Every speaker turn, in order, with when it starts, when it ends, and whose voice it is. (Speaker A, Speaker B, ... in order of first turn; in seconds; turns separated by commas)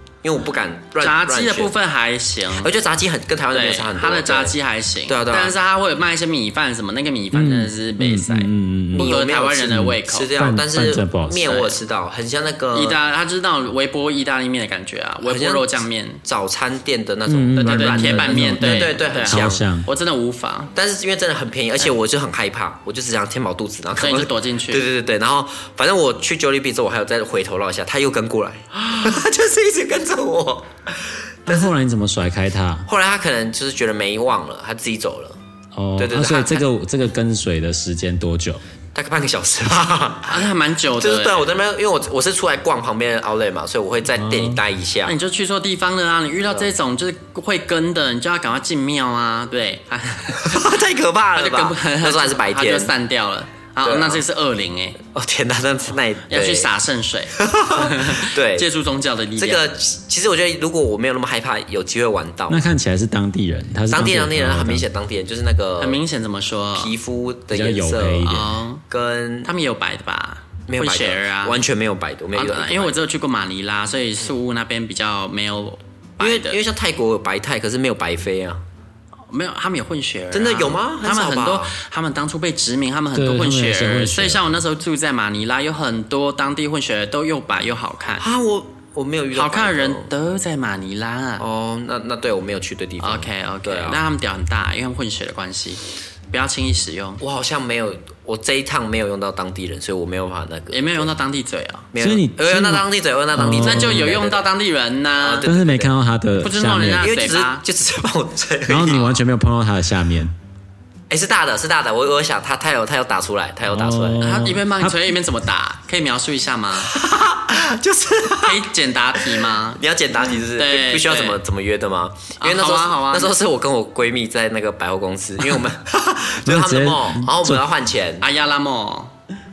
Speaker A: 0.2-1.7, Speaker B: 1.0-2.7, Speaker A: 2.6-4.5, Speaker B: 3.5-10.3, Speaker A: 5.1-5.5, Speaker C: 7.3-9.2, Speaker A: 8.9-13.0, Speaker C: 9.7-11.7, Speaker B: 12.7-16.2, Speaker A: 15.2-15.7, Speaker A: 16.2-19.6, Speaker C: 17.3-19.9, Speaker B: 17.6-20.7, Speaker A: 20.7-31.7, Speaker B: 23.9-24.8, Speaker C: 31.5-32.9, Speaker A: 32.9-35.4, Speaker C: 35.7-38.6, Speaker A: 36.0-36.6, Speaker A: 38.9-40.5, Speaker B: 40.3-41.5, Speaker A: 41.0-45.1, Speaker C: 44.1-44.6, Speaker B: 45.0-50.6, Speaker A: 50.4-52.9, Speaker B: 51.4-55.0, Speaker A: 53.8-54.2, Speaker A: 55.1-56.7, Speaker B: 56.3-59.6, Speaker A: 57.4-58.7, Speaker A: 59.4-62.6, Speaker C: 62.5-64.8, Speaker A: 63.9-66.0, Speaker B: 65.8-66.9, Speaker A: 66.7-69.5, Speaker C: 67.5-68.5, Speaker B: 68.2-68.8, Speaker B: 69.4-71.6, Speaker A: 70.7-72.9, Speaker B: 72.3-76.6, Speaker A: 76.2-78.6, Speaker B: 79.3-88.2, Speaker A: 80.3-81.7, Speaker C: 83.1-84.4, Speaker A: 88.2-90.1, Speaker B: 89.3-91.4, Speaker A: 91.4-94.0, Speaker B: 93.0-97.2, Speaker A: 97.2-101.1, Speaker B: 100.7-101.9, Speaker A: 101.9-104.4, Speaker C: 102.0-104.1, Speaker B: 103.6-105.5, Speaker A: 105.2-105.9, Speaker C: 105.5-107.1, Speaker B: 106.4-107.6, Speaker A: 107.0-109.1, Speaker C: 108.7-110.3, Speaker A: 111.1-114.3, Speaker C: 113.7-115.1, Speaker B: 114.2-116.9, Speaker A: 116.9-118.6, Speaker B: 118.4-119.8, Speaker A: 119.8-128.2, Speaker B: 120.5-121.4, Speaker B: 122.4-123.3, Speaker C: 126.4-127.6, Speaker B: 128.2-129.1